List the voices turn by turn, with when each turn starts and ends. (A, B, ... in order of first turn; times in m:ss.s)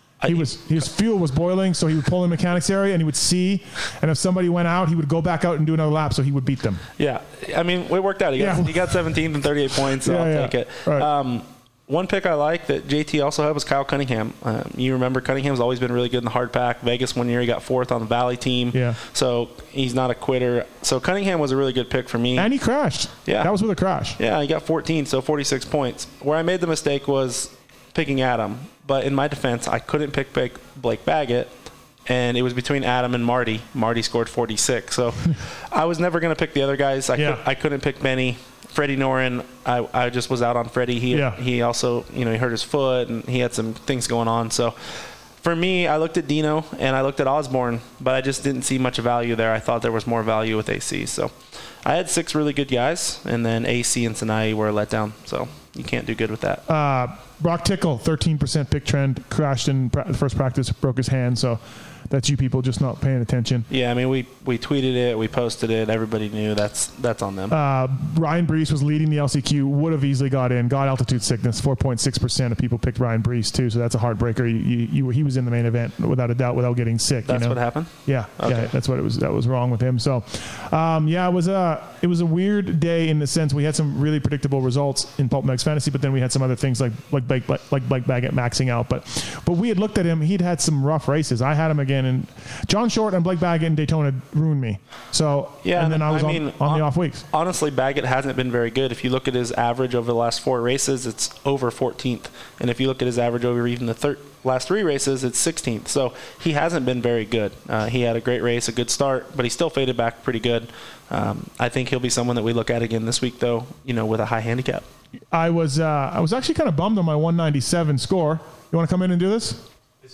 0:00.2-0:00.5 A
0:00.2-0:06.8 B
0:07.0-0:22.5 A
0:08.4-0:09.0 B
0:10.0-0:11.1 B
0:18.7-0:19.0 B
0:22.4-0:24.2 B
0:23.3-0:23.5 A
0:24.2-0:56.6 A
0:37.2-0:37.4 B
0:41.1-0:41.4 B
0:56.7-1:03.7 B
1:03.7-1:07.6 A
1:07.5-1:37.2 B
1:17.2-1:18.7 A
1:35.6-1:54.8 A
1:55.3-1:59.6 B